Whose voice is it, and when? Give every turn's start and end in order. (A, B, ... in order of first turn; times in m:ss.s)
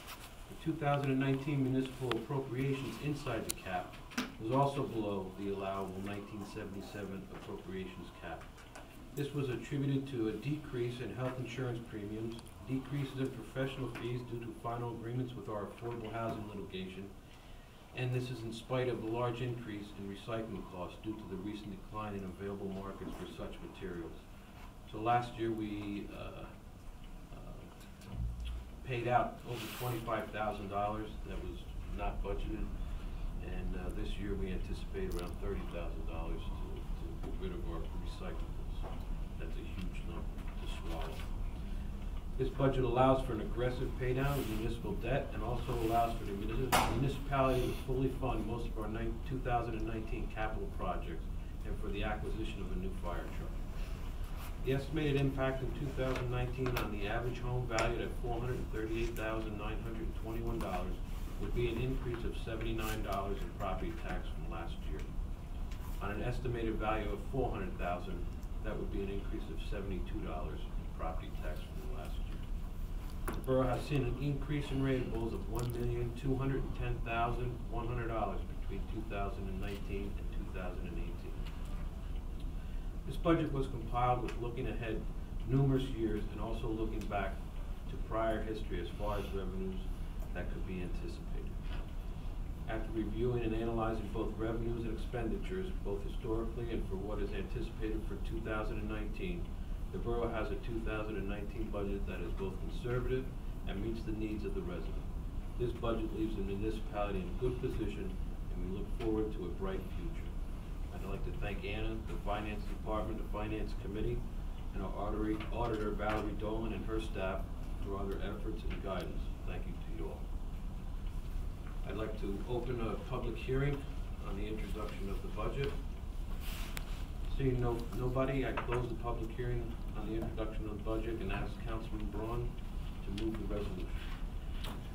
0:00.5-0:08.5 A
0:09.1-0:17.1 A
0:17.9-0:24.2 A
0:24.9-0:26.5 A
0:27.3-0:27.7 A
0:28.8-0:32.7 A
0:33.4-0:41.2 A
0:42.4-0:53.6 A
0:54.6-1:05.1 A
1:06.0-1:12.5 A
1:13.3-1:21.5 A
1:23.0-1:31.6 A
1:32.6-1:50.3 A
1:50.9-2:00.2 A
2:01.8-2:05.8 A
2:07.2-2:14.1 A